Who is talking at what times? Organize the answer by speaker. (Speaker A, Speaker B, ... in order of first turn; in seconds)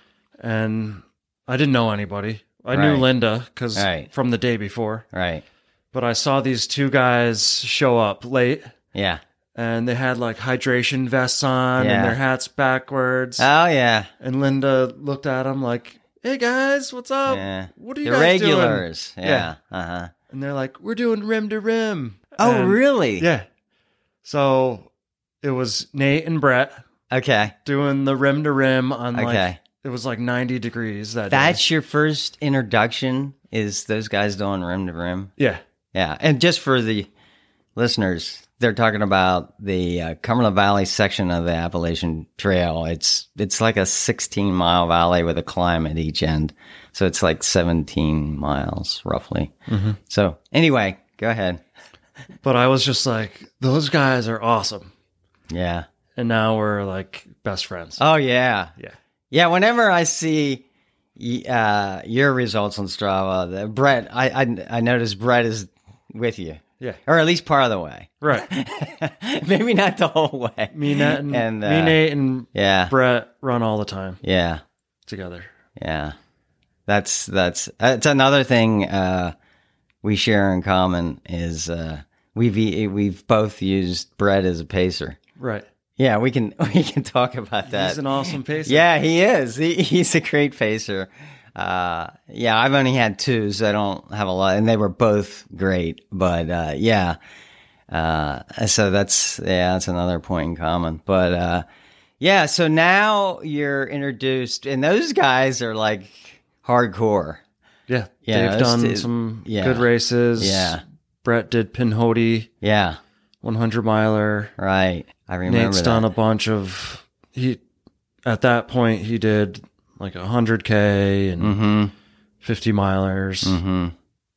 Speaker A: 0.4-5.0, 5.9-8.7, 9.6-13.5, 14.2-19.5, 20.3-23.5, 24.2-24.9, 25.4-26.8, 27.6-31.6, 49.7-50.0, 52.4-54.9, 56.2-58.0, 68.2-68.5, 70.7-74.2, 75.1-75.5, 85.4-85.7, 87.7-88.9, 107.9-112.5, 113.4-114.5, 115.5-117.6, 118.2-121.6, 122.4-123.6
Speaker B: 2.7-3.1, 3.8-4.1, 5.1-5.5, 8.9-9.2, 11.8-12.2, 13.4-14.1, 17.3-20.1, 22.4-23.3, 27.1-27.6, 29.1-29.6, 31.3-35.3, 35.9-37.1, 37.8-49.5, 50.1-51.6, 55.5-55.9, 58.0-58.7, 59.3-60.6, 61.2-72.0, 72.5-72.9, 74.2-74.6, 75.8-76.2, 76.9-79.3, 80.0-85.2, 86.0-88.0, 88.7-97.2, 97.9-101.7, 102.2-107.4, 108.2-110.8, 112.6-113.0, 114.6-116.1, 121.4-121.9, 123.4-124.0